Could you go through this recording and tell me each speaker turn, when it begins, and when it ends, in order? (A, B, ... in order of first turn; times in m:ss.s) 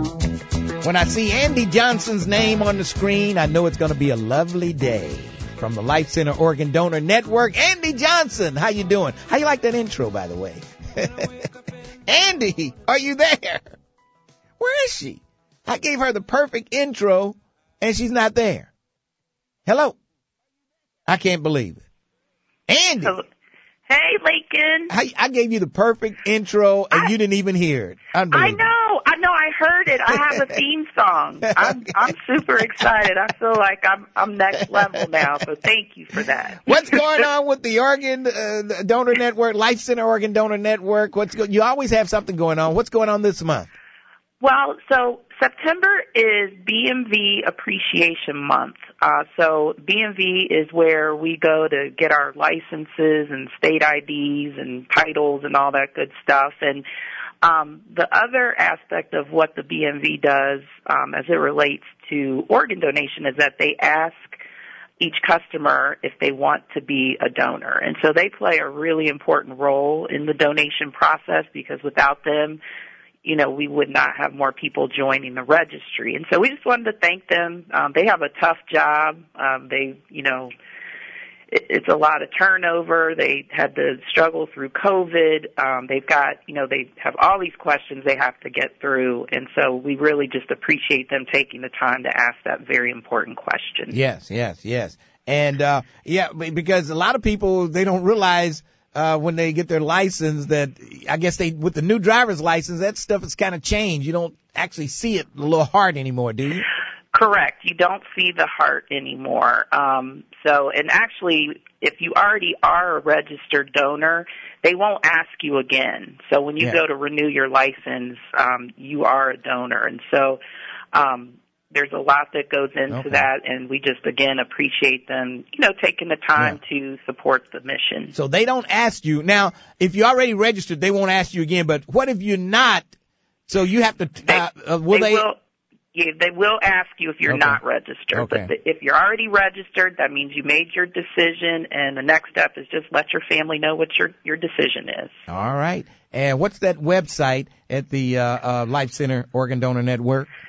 0:00.8-0:11.3 A
0:12.1-0:13.8 A
0:14.6-0:18.7 A
0:19.7-0:20.0 A
0:21.1-0:21.8 A
0:22.7-0:23.2 A
0:23.9-0:24.9 B
0:24.9-0:28.6 A
0:28.3-0:37.3 B
0:36.6-0:43.7 A
0:44.4-0:56.8 B
0:57.4-1:04.4 B
1:05.0-1:12.6 B
1:13.2-1:20.5 B
1:21.5-1:34.0 B
1:33.9-1:46.6 A
1:47.1-2:00.4 B
2:00.9-2:08.1 B
2:02.9-2:03.2 A
2:08.1-2:12.9 A
2:13.5-2:15.3 A
2:14.3-2:15.4 B
2:15.9-2:25.2 B
2:17.3-2:17.6 A
2:18.1-2:18.5 A
2:25.3-2:30.3 A